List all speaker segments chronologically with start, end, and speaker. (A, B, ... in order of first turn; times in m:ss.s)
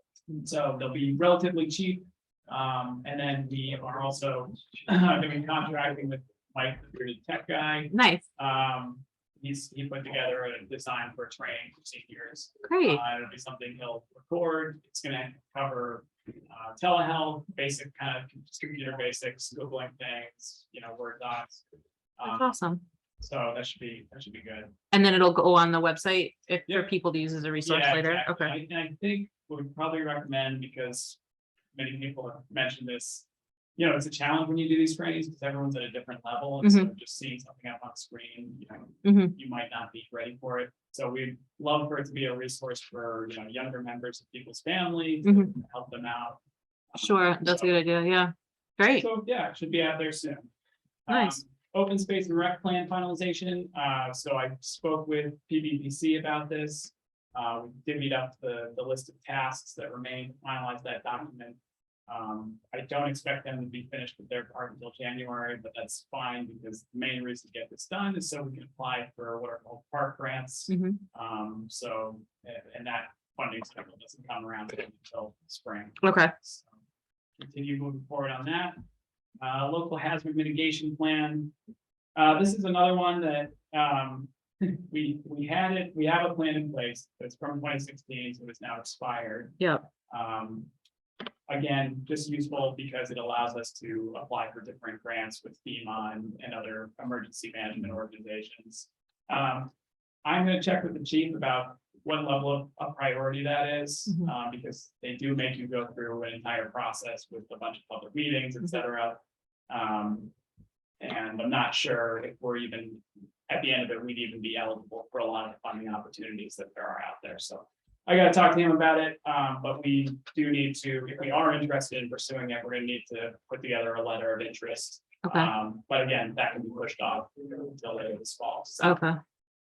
0:00.3-0:21.6 A
0:07.9-0:08.2 B
0:12.6-0:13.0 B
0:22.2-0:22.5 A
0:22.2-0:22.8 B
0:23.2-0:24.7 A
0:24.9-0:28.6 B
0:27.6-0:31.2 A
0:31.7-0:33.2 A
0:33.8-0:46.4 A
0:36.6-0:36.9 B
0:39.0-0:39.3 B
0:45.2-0:45.5 B
0:46.9-0:47.8 A
0:47.0-0:49.1 B
0:48.9-0:50.5 A
0:51.1-1:16.8 A
0:51.1-0:51.4 B
1:10.7-1:11.0 B
1:16.0-1:16.3 B
1:17.4-1:18.8 A
1:19.4-1:21.5 A
1:22.2-1:30.7 A
1:29.6-1:29.8 B
1:31.5-1:39.7 A
1:40.2-1:50.3 A
1:51.0-2:09.0 A
2:05.2-2:05.5 B
2:08.8-2:09.2 B